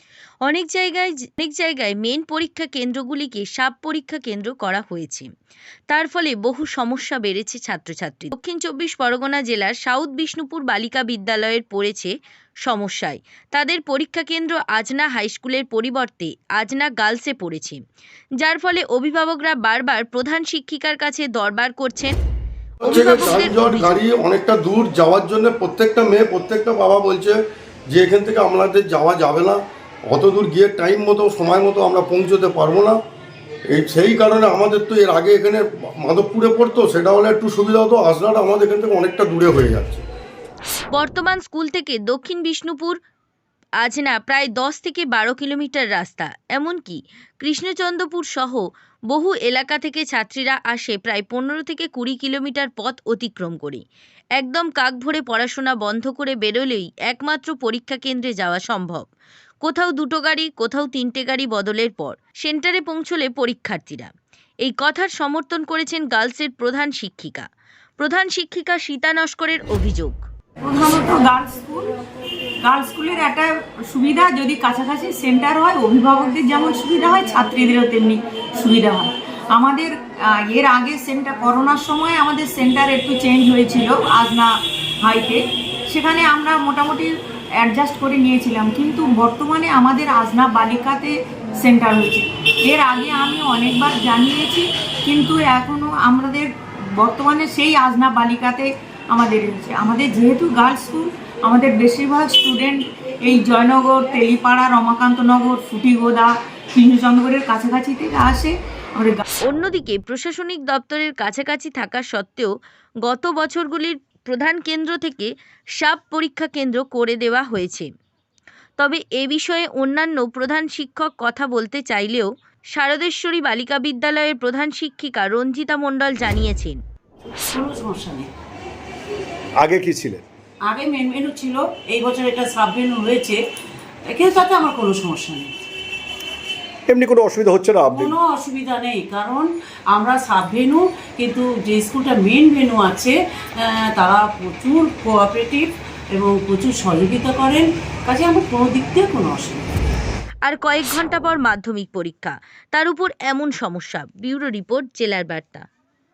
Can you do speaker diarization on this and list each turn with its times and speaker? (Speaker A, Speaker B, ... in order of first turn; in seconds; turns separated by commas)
Speaker A: 0.4-5.3, Speaker A: 5.9-17.8, Speaker A: 18.4-22.2, Speaker B: 22.8-27.4, Speaker A: 22.8-24.0, Speaker B: 27.9-33.0, Speaker B: 33.7-40.0, Speaker A: 40.9-43.0, Speaker A: 43.8-53.8, Speaker A: 54.4-59.1, Speaker A: 59.6-64.1, Speaker A: 64.6-67.5, Speaker A: 68.0-70.3, Speaker C: 70.6-71.9, Speaker C: 72.6-79.9, Speaker C: 80.5-84.5, Speaker C: 85.0-87.1, Speaker C: 87.6-96.5, Speaker C: 97.0-109.2, Speaker A: 109.4-117.9, Speaker A: 118.8-126.8, Speaker D: 127.5-128.3, Speaker E: 129.6-130.2, Speaker D: 130.7-133.4, Speaker D: 134.1-135.5, Speaker E: 136.9-138.2, Speaker D: 137.9-149.6, Speaker A: 150.4-155.6